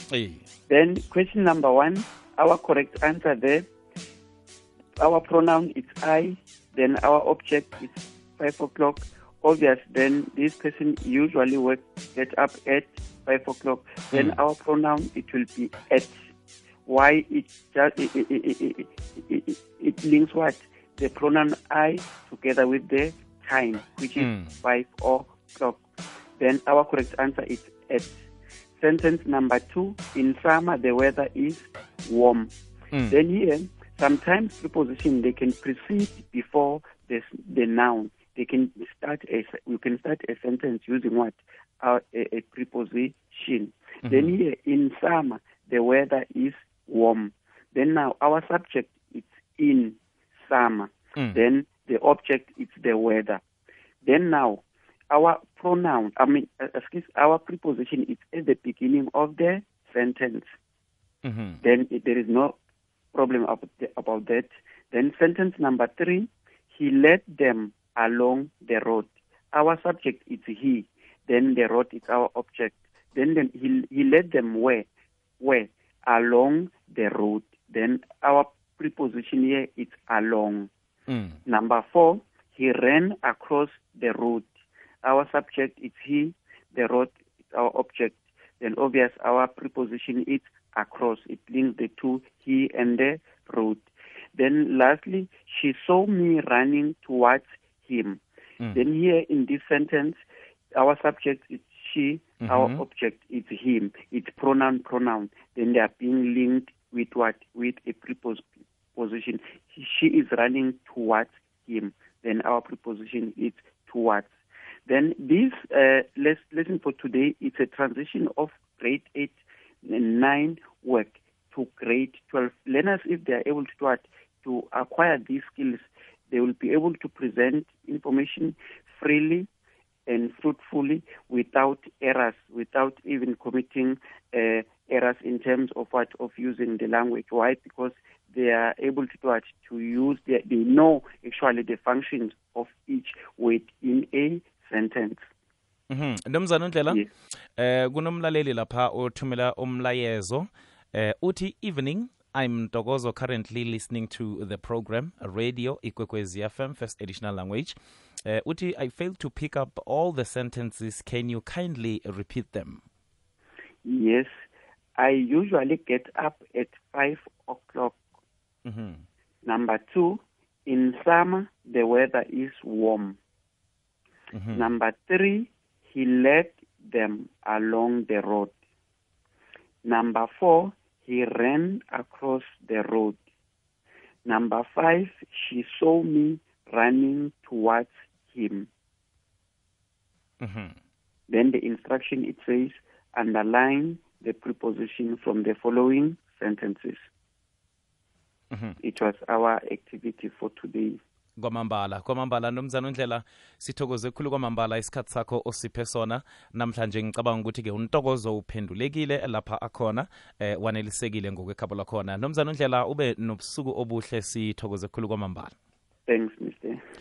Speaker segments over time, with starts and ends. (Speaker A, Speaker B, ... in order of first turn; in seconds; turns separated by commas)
Speaker A: 0.1-0.4, Speaker B: 0.7-3.7, Speaker B: 5.0-16.1, Speaker B: 16.9-25.8, Speaker A: 24.2-24.5, Speaker B: 26.4-28.1, Speaker B: 28.8-32.5, Speaker B: 33.1-53.4, Speaker A: 44.0-44.3, Speaker B: 54.0-60.5, Speaker A: 61.2-61.6, Speaker B: 61.6-62.6, Speaker B: 63.1-74.9, Speaker B: 75.4-80.7, Speaker A: 81.1-81.4, Speaker B: 81.5-84.5, Speaker B: 85.0-98.2, Speaker B: 98.7-100.2, Speaker B: 100.7-114.3, Speaker A: 102.4-102.8, Speaker B: 114.9-129.5, Speaker B: 130.1-145.3, Speaker A: 145.9-147.0, Speaker A: 147.6-162.8, Speaker B: 163.8-164.4, Speaker B: 165.0-168.0, Speaker A: 168.7-169.0, Speaker B: 169.4-173.2, Speaker A: 174.3-174.7, Speaker B: 174.5-178.5, Speaker B: 179.8-183.2, Speaker B: 184.2-188.7, Speaker A: 190.4-190.8, Speaker B: 191.3-197.1, Speaker A: 198.5-198.8, Speaker B: 198.8-201.0, Speaker A: 201.4-215.5, Speaker B: 216.1-216.8